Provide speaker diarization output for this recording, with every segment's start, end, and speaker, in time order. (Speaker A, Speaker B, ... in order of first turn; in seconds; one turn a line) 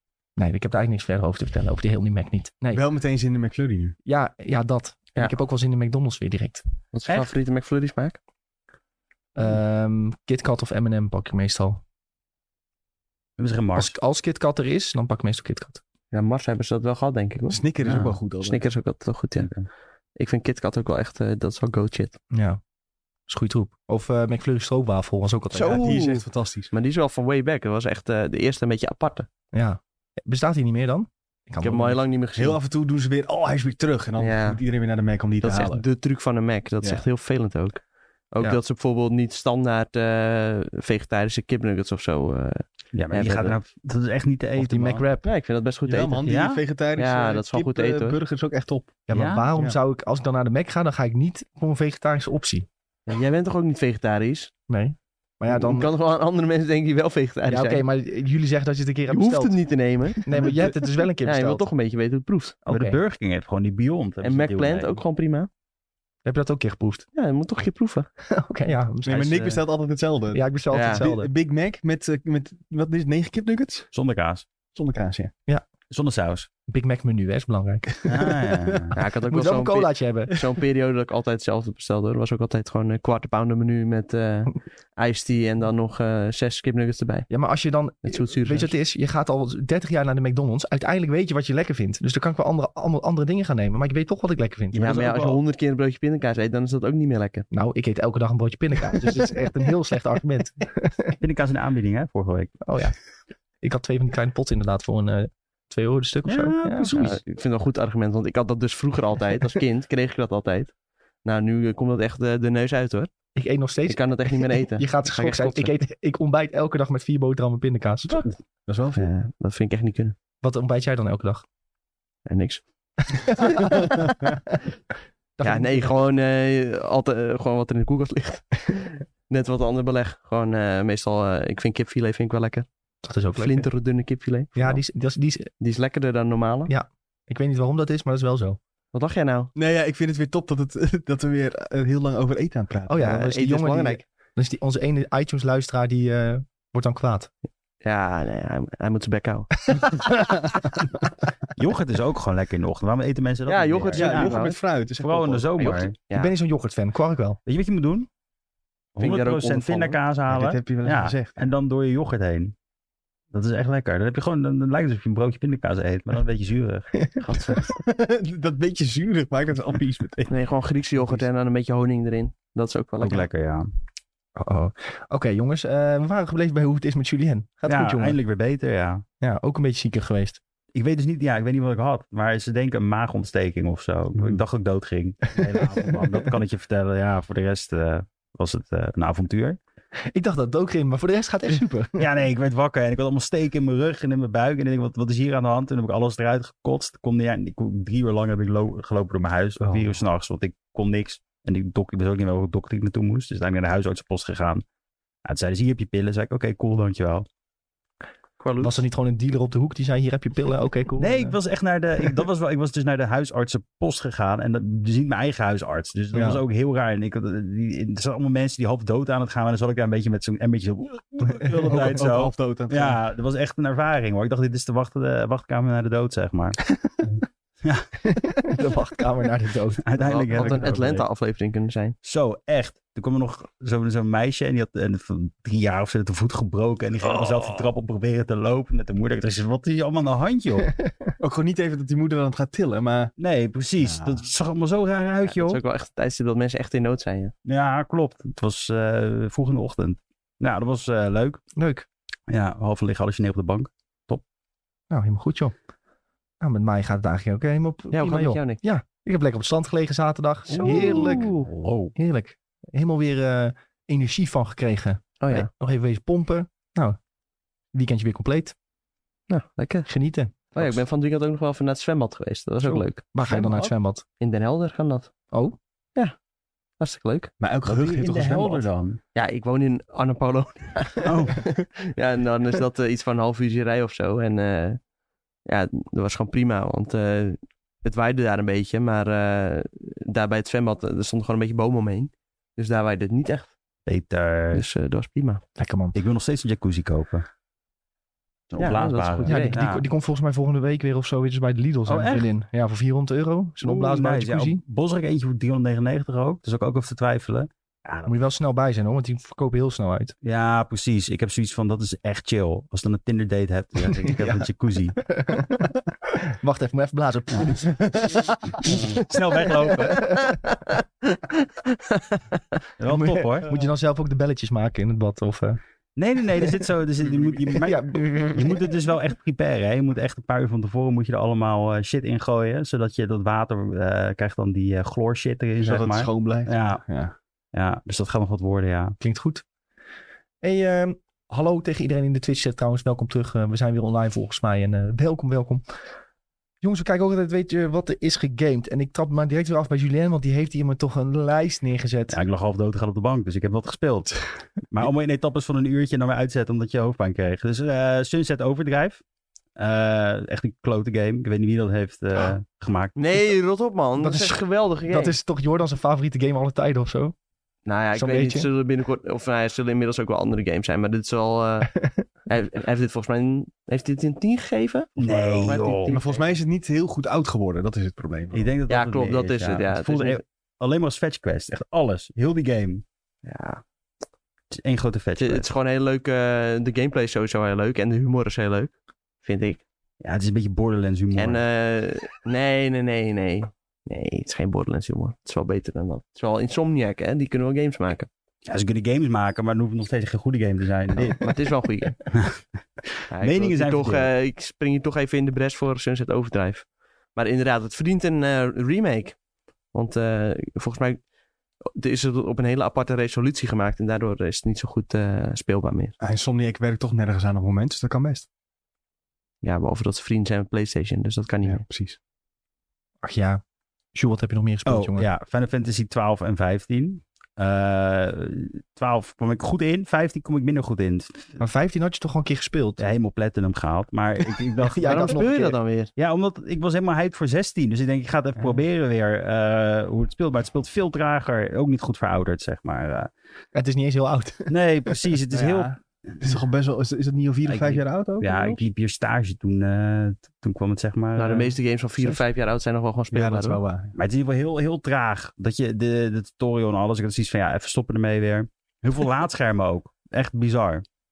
Speaker A: 0.4-2.8
Speaker B: 2.7-4.0
Speaker A: 4.1-6.6
Speaker C: 6.9-8.2
Speaker D: 7.1-7.3
Speaker A: 9.4-11.8
Speaker D: 13.4-14.0
Speaker A: 13.8-15.8
Speaker C: 16.1-19.5
Speaker B: 17.5-18.7
Speaker D: 17.9-18.2
Speaker D: 19.4-19.7
Speaker C: 20.2-22.2
Speaker A: 22.3-22.6
Speaker A: 23.3-26.0
Speaker C: 25.5-29.3
Speaker B: 25.6-26.7
Speaker A: 29.5-32.0
Speaker C: 31.6-32.6
Speaker B: 32.4-35.9
Speaker C: 34.2-34.6
Speaker C: 35.4-43.6
Speaker D: 42.9-45.0
Speaker A: 44.6-45.3
Speaker C: 45.2-46.3
Speaker B: 45.9-49.0
Speaker D: 46.3-46.6
Speaker C: 47.0-48.2
Speaker A: 49.1-52.7
Speaker D: 49.1-49.5
Speaker C: 53.1-54.5
Speaker A: 54.7-55.9
Speaker C: 55.5-57.9
Speaker A: 57.5-59.6
Speaker C: 59.1-60.6
Speaker A: 60.2-61.7
Speaker B: 60.4-60.7
Speaker C: 61.2-62.6
Speaker D: 62.7-65.0
Speaker A: 62.7-63.0
Speaker C: 64.2-65.5
Speaker A: 66.2-67.1
Speaker C: 67.1-68.1
Speaker A: 68.3-69.4
Speaker B: 69.0-73.9
Speaker D: 69.1-69.5
Speaker A: 70.3-71.3
Speaker C: 70.7-71.1
Speaker D: 73.9-74.5
Speaker B: 74.7-75.3
Speaker D: 75.9-76.5
Speaker A: 76.7-78.4
Speaker D: 78.0-79.0
Speaker B: 78.5-78.9
Speaker C: 79.0-87.3
Speaker A: 79.3-80.4
Speaker A: 87.3-94.8
Speaker C: 88.0-88.8
Speaker D: 94.7-95.4
Speaker C: 94.7-97.5
Speaker A: 97.5-101.2
Speaker D: 101.2-102.6
Speaker A: 102.7-103.0
Speaker A: 103.6-107.2
Speaker D: 106.3-107.2
Speaker C: 106.9-110.7
Speaker C: 111.2-113.1
Speaker A: 113.4-118.2
Speaker C: 113.9-115.7
Speaker C: 118.1-118.3
Speaker B: 118.7-119.1
Speaker C: 119.0-120.2
Speaker A: 120.4-121.5
Speaker C: 122.3-122.6
Speaker A: 123.1-124.0
Speaker A: 125.4-125.9
Speaker C: 125.4-132.7
Speaker A: 133.0-133.7
Speaker C: 133.3-134.8
Speaker A: 134.6-135.5
Speaker C: 135.6-136.7
Speaker A: 136.7-138.6
Speaker C: 138.9-139.5
Speaker B: 139.6-143.2
Speaker A: 142.9-147.3
Speaker C: 143.0-144.0
Speaker C: 147.8-149.8
Speaker D: 151.6-155.9
Speaker C: 153.5-154.6
Speaker B: 153.9-155.9
Speaker C: 155.6-156.3
Speaker A: 156.1-157.4
Speaker D: 157.4-158.1
Speaker D: 159.0-162.6
Speaker C: 159.0-160.0
Speaker B: 160.3-161.4
Speaker D: 163.3-166.9
Speaker C: 167.2-167.7
Speaker B: 167.7-170.3
Speaker C: 170.3-173.3
Speaker D: 173.0-173.7
Speaker A: 174.4-178.2
Speaker D: 177.7-179.0
Speaker A: 179.2-180.4
Speaker D: 180.7-189.6
Speaker A: 185.4-185.6
Speaker A: 190.1-192.1
Speaker D: 192.0-204.6
Speaker D: 205.2-207.3
Speaker C: 208.4-208.8
Speaker A: 208.6-211.4
Speaker D: 211.0-226.6
Speaker A: 216.1-216.4
Speaker B: 221.6-223.0
Speaker D: 227.6-227.9
Speaker A: 228.1-229.9
Speaker D: 229.8-231.1
Speaker C: 230.0-232.0
Speaker B: 230.3-230.8
Speaker D: 232.0-240.7
Speaker B: 241.2-243.1
Speaker D: 243.2-245.6
Speaker B: 243.8-244.2
Speaker C: 245.3-247.3
Speaker D: 247.4-251.4
Speaker A: 251.6-251.9
Speaker D: 252.3-254.2
Speaker A: 254.9-255.6
Speaker A: 256.4-261.4
Speaker C: 257.9-258.6
Speaker D: 260.5-261.9
Speaker C: 260.5-261.5
Speaker A: 261.9-267.0
Speaker C: 265.2-265.5
Speaker A: 267.7-268.6
Speaker C: 269.3-269.9
Speaker A: 269.9-270.4
Speaker C: 270.5-273.0
Speaker A: 272.6-274.0
Speaker D: 273.2-273.7
Speaker C: 274.2-275.1
Speaker A: 275.3-275.6
Speaker C: 276.8-277.3
Speaker B: 277.4-278.7
Speaker D: 277.6-279.0
Speaker C: 279.1-284.8
Speaker D: 281.0-281.5
Speaker C: 285.5-293.5
Speaker D: 293.9-294.6
Speaker C: 294.5-295.4
Speaker A: 295.6-296.0
Speaker D: 295.9-297.3
Speaker D: 298.5-299.9
Speaker C: 298.6-299.6
Speaker A: 299.3-304.6
Speaker D: 301.9-302.3
Speaker D: 303.6-308.1
Speaker A: 308.1-310.1
Speaker D: 310.2-315.0
Speaker A: 314.0-314.5
Speaker A: 315.1-315.7
Speaker A: 316.3-318.8
Speaker D: 318.6-320.1
Speaker C: 319.6-322.6
Speaker A: 319.6-320.3
Speaker D: 322.8-323.5
Speaker A: 322.9-325.6
Speaker D: 326.0-336.8
Speaker A: 327.5-328.7
Speaker B: 335.6-337.1
Speaker D: 337.5-339.0
Speaker A: 339.0-339.4
Speaker A: 340.4-345.6
Speaker A: 346.6-352.2
Speaker D: 352.1-359.0
Speaker D: 359.6-363.0
Speaker C: 363.0-365.1
Speaker A: 364.0-367.1
Speaker C: 367.7-371.7
Speaker A: 367.9-368.5
Speaker C: 372.3-376.3
Speaker D: 375.0-376.0
Speaker B: 375.1-378.5
Speaker D: 378.3-382.8
Speaker C: 378.7-380.2
Speaker C: 383.2-383.6
Speaker D: 384.5-385.5
Speaker C: 385.2-389.6
Speaker D: 390.0-391.4
Speaker C: 391.1-398.1
Speaker D: 398.5-401.2
Speaker C: 401.0-402.0
Speaker D: 402.1-404.1
Speaker C: 403.1-409.2
Speaker C: 409.7-411.0
Speaker C: 411.7-415.9
Speaker B: 416.0-418.3
Speaker C: 419.4-421.6
Speaker B: 421.4-422.0
Speaker A: 423.0-423.4
Speaker A: 423.9-425.1
Speaker D: 424.6-431.4
Speaker A: 431.4-432.8
Speaker D: 432.8-435.3
Speaker A: 434.6-435.6
Speaker C: 434.9-435.9
Speaker D: 436.0-443.1
Speaker A: 443.5-445.0
Speaker D: 444.5-445.8
Speaker B: 445.3-448.6
Speaker D: 447.4-452.2
Speaker C: 451.2-453.6
Speaker B: 453.1-453.9
Speaker D: 453.9-460.8